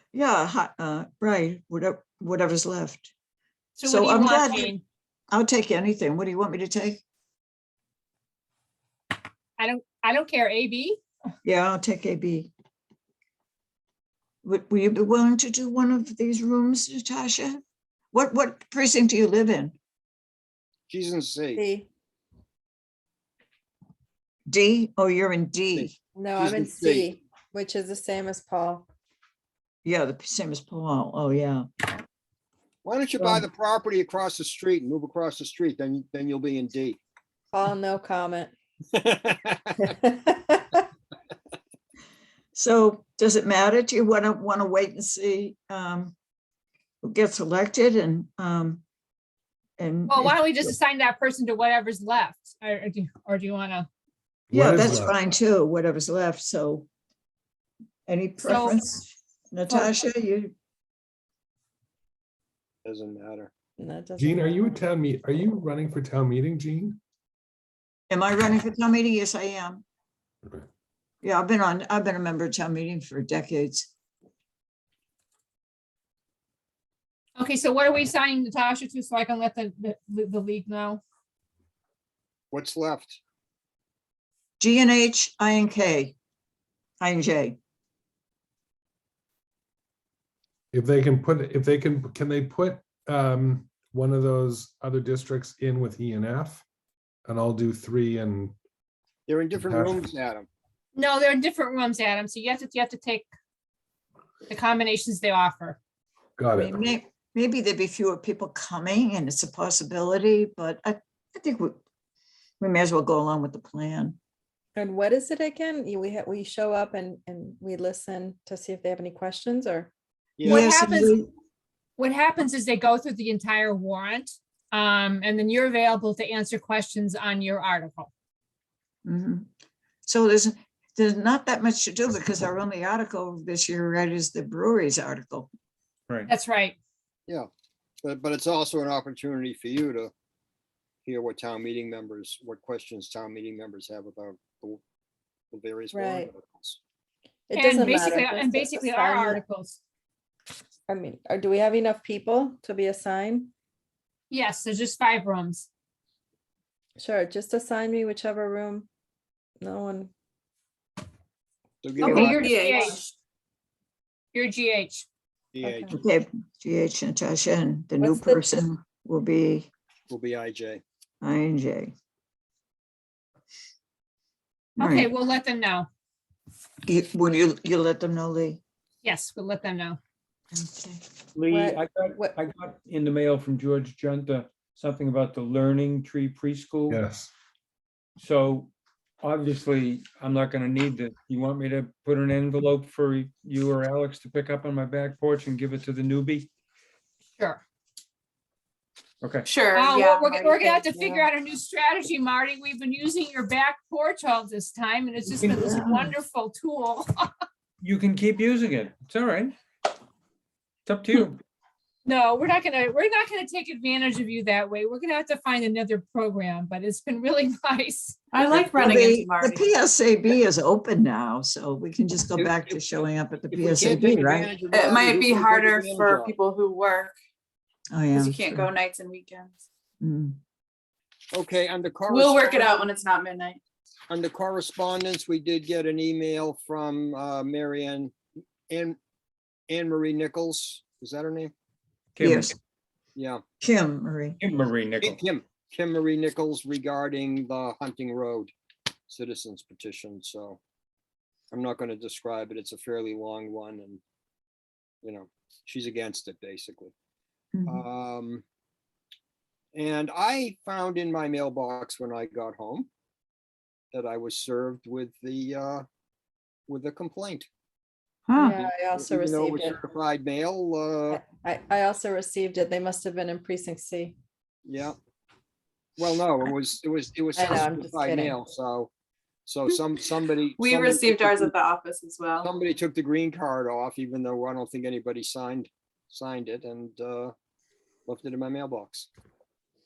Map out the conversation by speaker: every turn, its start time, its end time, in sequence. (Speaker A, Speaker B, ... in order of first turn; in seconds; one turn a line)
Speaker A: 0.1-3.1
Speaker B: 3.8-4.8
Speaker A: 3.8-4.7
Speaker A: 5.3-7.0
Speaker B: 9.6-11.0
Speaker A: 11.4-12.5
Speaker A: 14.4-17.6
Speaker A: 18.1-19.8
Speaker C: 20.9-21.6
Speaker D: 21.6-21.9
Speaker A: 24.5-25.9
Speaker C: 25.8-27.1
Speaker D: 26.1-28.9
Speaker A: 29.9-31.7
Speaker C: 32.8-37.0
Speaker D: 37.5-38.5
Speaker C: 38.9-39.9
Speaker D: 39.9-40.9
Speaker A: 42.5-46.1
Speaker A: 47.0-48.8
Speaker A: 49.8-50.7
Speaker B: 50.1-53.9
Speaker E: 54.5-55.2
Speaker A: 54.5-56.9
Speaker A: 58.1-60.5
Speaker B: 58.4-58.8
Speaker D: 59.7-60.0
Speaker C: 62.9-63.5
Speaker D: 63.8-64.8
Speaker E: 64.2-67.0
Speaker A: 68.1-69.8
Speaker A: 71.2-73.9
Speaker B: 77.4-81.0
Speaker C: 82.5-83.2
Speaker A: 84.6-86.2
Speaker A: 87.0-87.6
Speaker E: 90.7-96.7
Speaker E: 97.3-98.6
Speaker C: 99.3-100.5
Speaker E: 99.5-100.0
Speaker B: 101.0-103.3
Speaker B: 104.5-105.8
Speaker E: 106.4-106.8
Speaker A: 106.5-111.8
Speaker A: 112.6-114.2
Speaker D: 114.8-119.9
Speaker C: 120.4-120.7
Speaker A: 120.4-121.3
Speaker B: 120.5-121.2
Speaker B: 122.0-128.1
Speaker A: 129.1-129.5
Speaker A: 130.1-135.5
Speaker B: 136.3-136.8
Speaker C: 138.0-140.1
Speaker C: 141.1-144.8
Speaker C: 145.5-146.8
Speaker D: 145.9-146.3
Speaker D: 147.5-149.4
Speaker B: 147.5-149.8
Speaker D: 150.9-153.5
Speaker B: 154.3-155.7
Speaker D: 157.0-158.9
Speaker D: 159.6-160.1
Speaker C: 161.8-162.5
Speaker B: 162.0-163.0
Speaker F: 162.4-163.0
Speaker B: 164.3-165.1
Speaker C: 165.5-165.9
Speaker D: 165.6-165.9
Speaker A: 165.9-169.7
Speaker D: 168.0-168.7
Speaker C: 170.1-170.8
Speaker A: 171.2-171.9
Speaker B: 174.8-175.9
Speaker A: 174.8-175.1
Speaker A: 176.9-178.6
Speaker B: 179.0-180.0
Speaker A: 180.5-181.0
Speaker G: 181.3-187.0
Speaker D: 181.5-182.4
Speaker E: 186.9-187.3
Speaker G: 188.2-196.5
Speaker G: 199.2-199.5
Speaker F: 199.4-201.2
Speaker B: 199.7-207.3
Speaker A: 205.5-206.1
Speaker G: 207.8-209.6
Speaker G: 210.8-211.4
Speaker B: 212.1-218.2
Speaker F: 218.3-219.7
Speaker A: 218.4-224.5
Speaker C: 222.4-222.8
Speaker C: 223.5-226.3
Speaker F: 224.7-227.2
Speaker A: 227.9-228.7
Speaker F: 228.1-229.6
Speaker A: 230.0-230.4
Speaker C: 231.3-232.8
Speaker F: 232.1-233.6
Speaker C: 234.1-238.1
Speaker C: 238.7-239.0
Speaker C: 239.7-241.5
Speaker G: 242.2-242.5
Speaker A: 242.2-242.6
Speaker C: 243.2-243.4
Speaker A: 243.6-244.4
Speaker G: 244.4-245.2
Speaker C: 245.0-248.5
Speaker C: 249.1-250.6
Speaker C: 251.5-254.0
Speaker C: 255.0-256.9
Speaker A: 257.6-257.8
Speaker C: 257.7-258.4
Speaker C: 259.7-262.9
Speaker C: 263.9-265.9
Speaker C: 266.7-267.5
Speaker D: 268.3-269.8
Speaker C: 268.5-271.2
Speaker D: 271.1-274.2
Speaker C: 274.7-275.0
Speaker C: 276.0-278.9
Speaker D: 277.4-278.4
Speaker C: 279.5-281.6
Speaker F: 280.6-282.5
Speaker C: 282.4-287.3
Speaker C: 288.1-289.1